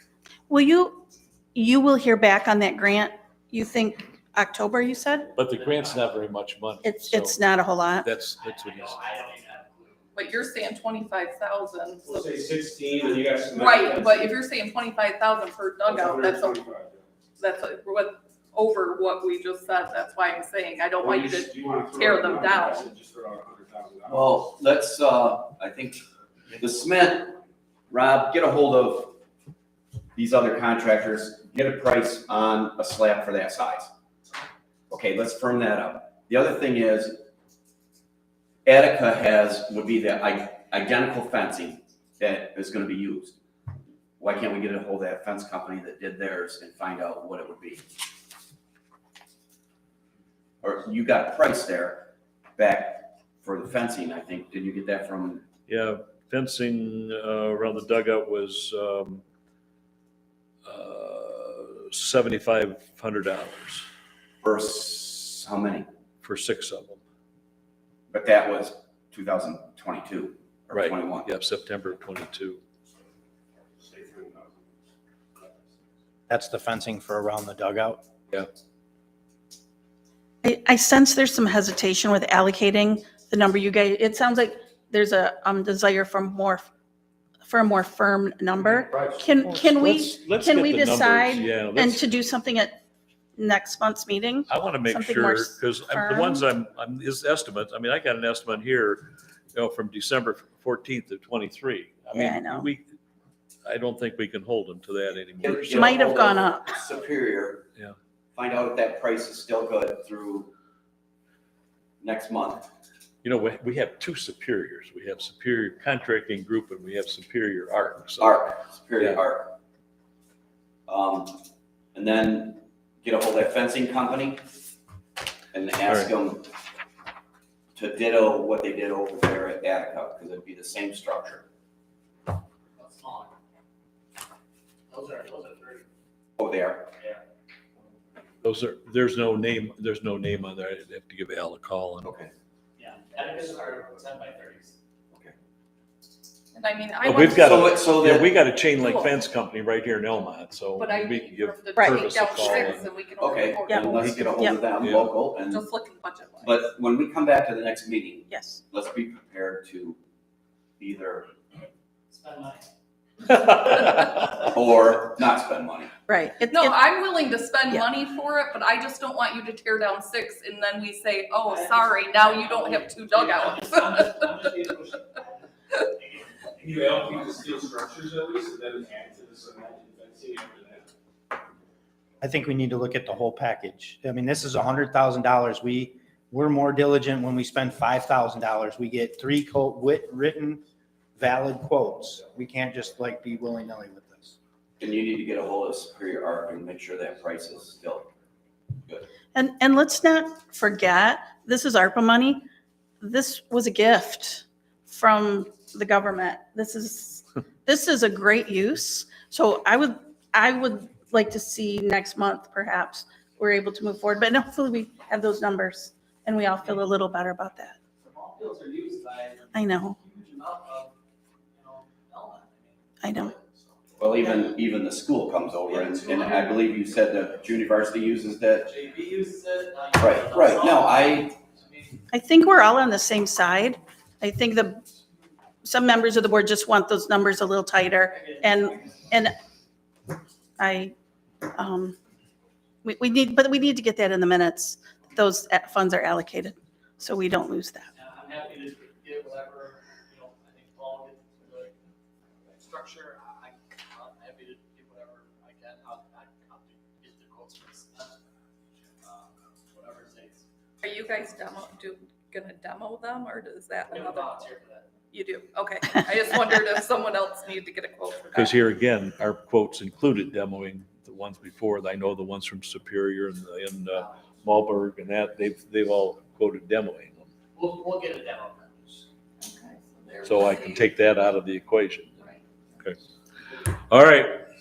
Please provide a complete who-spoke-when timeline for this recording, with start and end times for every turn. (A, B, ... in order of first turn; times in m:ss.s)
0:00.5-0:05.3 A
0:05.4-0:07.4 B
0:05.4-0:06.1 C
0:06.8-0:08.1 A
0:08.0-0:09.0 B
0:08.3-0:10.1 C
0:10.1-0:12.4 D
0:12.0-0:14.3 E
0:13.5-0:16.6 D
0:15.8-0:17.0 E
0:17.4-0:22.9 D
0:21.0-0:24.4 E
0:24.1-0:26.0 F
0:26.6-0:27.4 F
0:27.9-0:29.2 F
0:30.2-0:33.9 F
0:34.9-0:37.2 F
0:38.6-0:43.3 F
0:44.2-0:47.9 F
0:50.6-0:55.4 F
0:55.7-0:59.2 B
1:00.6-1:03.9 B
1:04.4-1:05.9 F
1:06.2-1:07.0 B
1:08.1-1:11.3 F
1:10.7-1:12.6 B
1:13.8-1:14.5 E
1:16.3-1:18.0 G
1:20.4-1:26.7 A
1:27.4-1:32.8 A
1:28.9-1:32.0 B
1:33.4-1:36.5 A
1:34.5-1:42.8 B
1:42.1-1:42.7 A
1:43.6-1:46.0 B
1:45.4-1:47.7 F
1:45.8-1:46.8 A
1:48.3-1:50.5 F
1:52.0-1:52.7 F
1:53.2-1:58.4 B
1:58.2-1:59.6 F
2:00.9-2:01.4 F
2:01.9-2:04.4 F
2:05.5-2:06.5 F
2:05.9-2:06.1 B
2:07.8-2:11.5 F
2:12.8-2:13.3 C
2:14.9-2:15.9 C
2:16.4-2:16.9 F
2:18.4-2:22.1 B
2:22.0-2:22.3 F
2:22.8-2:24.8 C
2:26.5-2:27.8 D
2:27.0-2:32.9 B
2:27.1-2:28.3 F
2:28.8-2:29.2 D
2:30.8-2:33.9 D
2:31.8-2:32.1 A
2:33.2-2:35.6 F
2:33.7-2:34.6 A
2:34.8-2:35.1 B
2:35.5-2:36.7 D
2:36.4-2:40.0 F
2:38.3-2:38.6 A
2:40.8-2:41.3 F
2:42.1-2:42.7 C
2:43.5-2:44.1 B
2:44.5-2:45.9 F
2:46.1-2:46.9 A
2:46.5-2:54.4 D
2:51.5-2:57.3 C
2:56.6-3:00.9 E
3:02.2-3:10.6 G
3:11.2-3:14.4 G
3:14.8-3:18.1 F
3:18.9-3:19.1 F
3:19.3-3:22.5 A
3:23.0-3:37.8 A
3:38.0-3:41.0 C
3:39.5-3:40.0 A
3:41.5-3:44.5 C
3:43.0-3:43.4 A
3:44.0-3:48.7 F
3:45.6-3:46.8 C
3:48.6-3:52.0 C
3:50.0-3:51.4 F
3:52.1-3:54.9 A
3:55.6-3:59.4 A
3:58.1-3:59.1 C
4:00.6-4:02.0 A
4:02.8-4:07.9 A
4:08.0-4:11.8 C
4:12.5-4:18.2 C
4:19.0-4:20.4 C
4:20.8-4:24.4 D
4:23.9-4:24.9 C
4:25.1-4:28.6 D
4:28.4-4:37.3 B
4:33.9-4:34.3 C
4:37.6-4:39.0 C
4:39.4-4:40.9 D
4:40.2-4:42.1 B
4:43.7-4:44.5 B